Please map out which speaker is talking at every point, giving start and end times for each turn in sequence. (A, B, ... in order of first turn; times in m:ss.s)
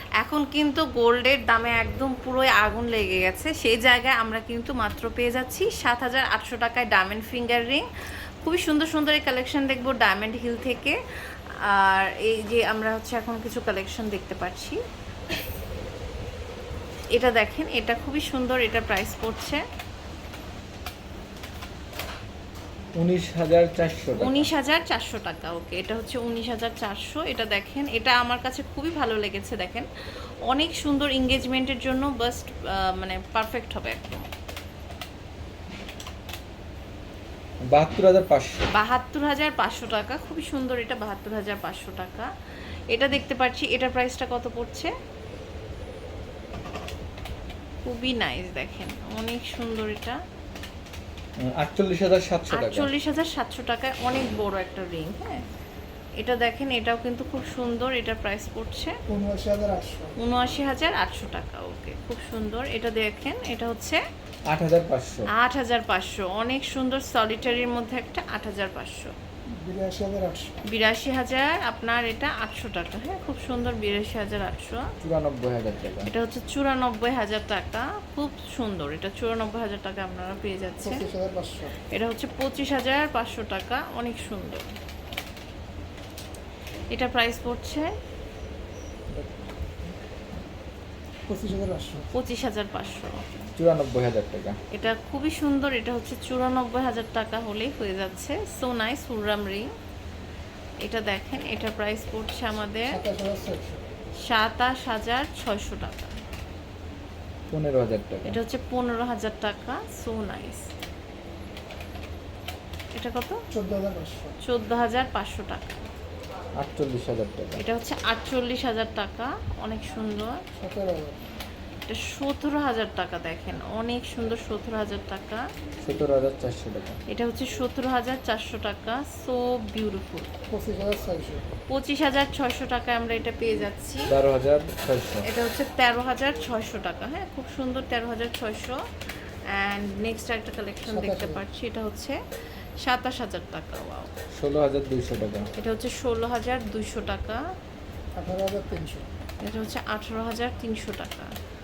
0:00.2-0:07.8 A
0:08.4-0:11.0 A
0:11.6-0:14.8 A
0:17.2-0:19.6 A
0:23.0-0:24.5 B
0:24.2-0:29.9 A
0:30.5-0:34.2 A
0:37.7-0:38.7 B
0:38.7-0:42.3 A
0:42.9-0:44.9 A
0:47.8-0:50.2 A
0:51.4-0:52.9 B
0:52.5-0:55.4 A
0:56.2-0:58.9 A
0:59.1-1:00.1 C
1:00.2-1:04.0 A
1:04.5-1:05.3 B
1:05.3-1:09.1 A
1:09.6-1:10.6 C
1:10.6-1:14.9 A
1:15.0-1:16.1 B
1:16.1-1:21.0 A
1:20.8-1:21.8 C
1:21.9-1:24.6 A
1:26.9-1:27.9 A
1:31.3-1:32.1 C
1:32.1-1:33.5 A
1:33.6-1:34.6 B
1:34.7-1:39.7 A
1:40.8-1:43.0 A
1:42.8-1:43.8 C
1:44.2-1:46.2 A
1:47.5-1:48.4 B
1:48.2-1:50.7 A
1:52.9-1:53.4 A
1:53.5-1:54.4 C
1:54.4-1:55.8 A
1:56.6-1:57.6 B
1:57.6-2:00.4 A
2:00.6-2:01.2 C
2:01.9-2:05.5 A
2:05.8-2:07.0 B
2:07.1-2:10.3 A
2:10.5-2:11.5 C
2:11.7-2:14.1 A
2:14.1-2:15.2 B
2:15.2-2:18.8 A
2:19.5-2:22.2 A
2:20.8-2:21.4 C
2:22.8-2:24.1 A
2:24.3-2:25.5 B
2:25.6-2:27.4 A
2:28.2-2:29.1 C
2:29.4-2:31.3 A